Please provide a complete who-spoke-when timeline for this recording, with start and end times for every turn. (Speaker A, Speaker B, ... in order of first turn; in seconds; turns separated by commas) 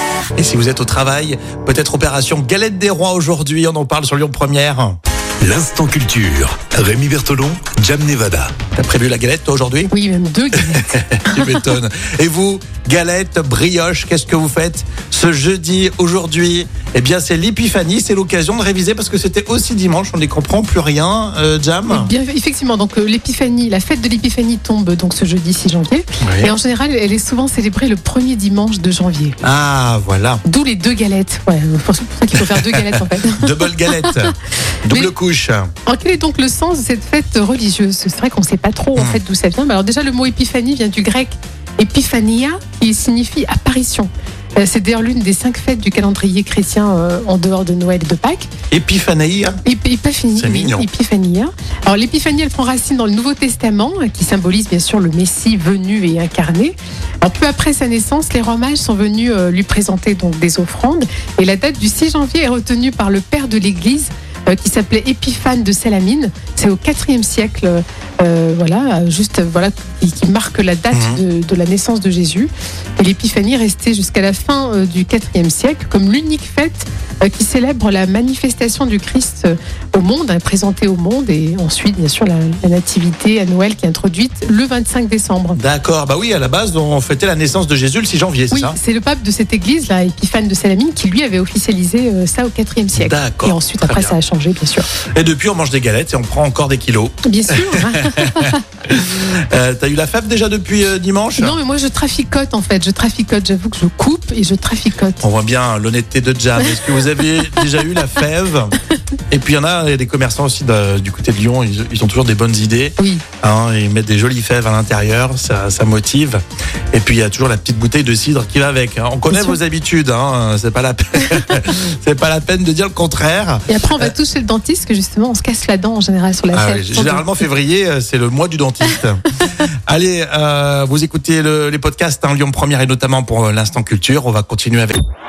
Speaker A: 0.3-5.0, Speaker B: 5.4-8.5, Speaker A: 8.8-9.9, Speaker C: 9.9-11.6, Speaker A: 10.7-22.1, Speaker C: 21.9-29.4, Speaker A: 26.2-26.5, Speaker A: 29.4-30.4, Speaker C: 30.4-34.1, Speaker A: 33.4-35.7, Speaker C: 35.9-48.5, Speaker A: 48.7-49.6, Speaker C: 49.6-85.6, Speaker A: 50.3-50.9, Speaker A: 70.9-71.2, Speaker A: 85.5-88.8, Speaker C: 88.5-94.9, Speaker A: 93.0-94.1, Speaker A: 95.1-101.6, Speaker C: 97.2-98.6, Speaker C: 101.4-105.2, Speaker A: 105.2-108.8, Speaker A: 109.3-116.4, Speaker C: 113.0-113.2, Speaker A: 116.9-124.1, Speaker C: 119.3-119.6, Speaker C: 123.7-127.4, Speaker A: 126.5-129.2, Speaker A: 129.9-135.0